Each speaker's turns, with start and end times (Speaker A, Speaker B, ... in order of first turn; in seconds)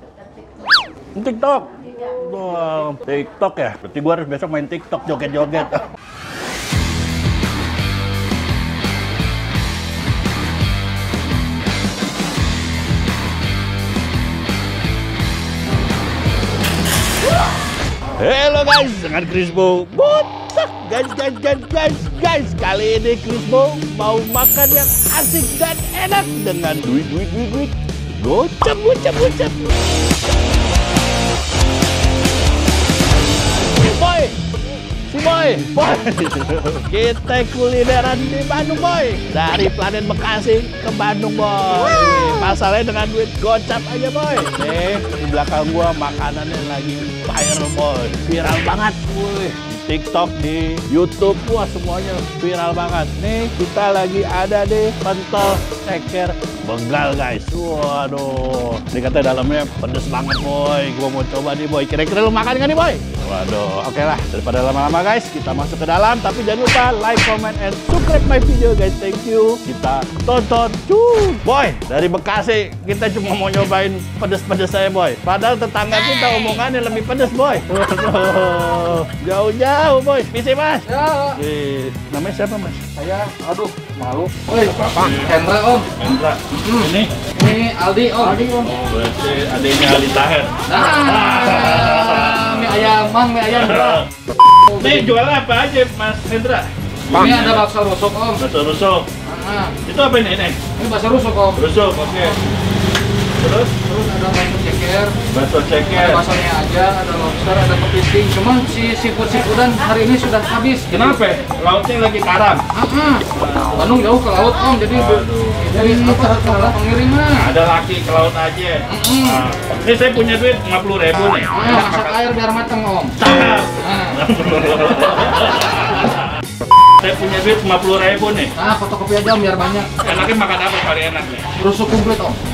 Speaker A: 1.1-5.9, 18.2-29.8, 33.6-34.4, 35.1-82.8, 84.5-87.1, 88.4-92.9, 93.5-97.7, 98.4-99.1, 99.8-100.6, 101.6-102.4, 103.4-103.8, 105.3-106.3, 110.9-112.7, 113.3-114.0, 114.9-115.7, 117.3-122.2, 123.2-126.3, 127.0-128.5, 130.0-131.5
Speaker B: 80.9-81.4, 83.0-85.9, 86.5-88.7, 90.7-94.0, 94.7-95.0, 97.1-98.4, 99.2-99.8, 100.8-101.6, 103.8-105.2, 105.9-111.0, 112.7-117.5, 118.9-119.5, 121.5-123.2, 123.8-124.2, 128.6-130.0, 131.6-132.4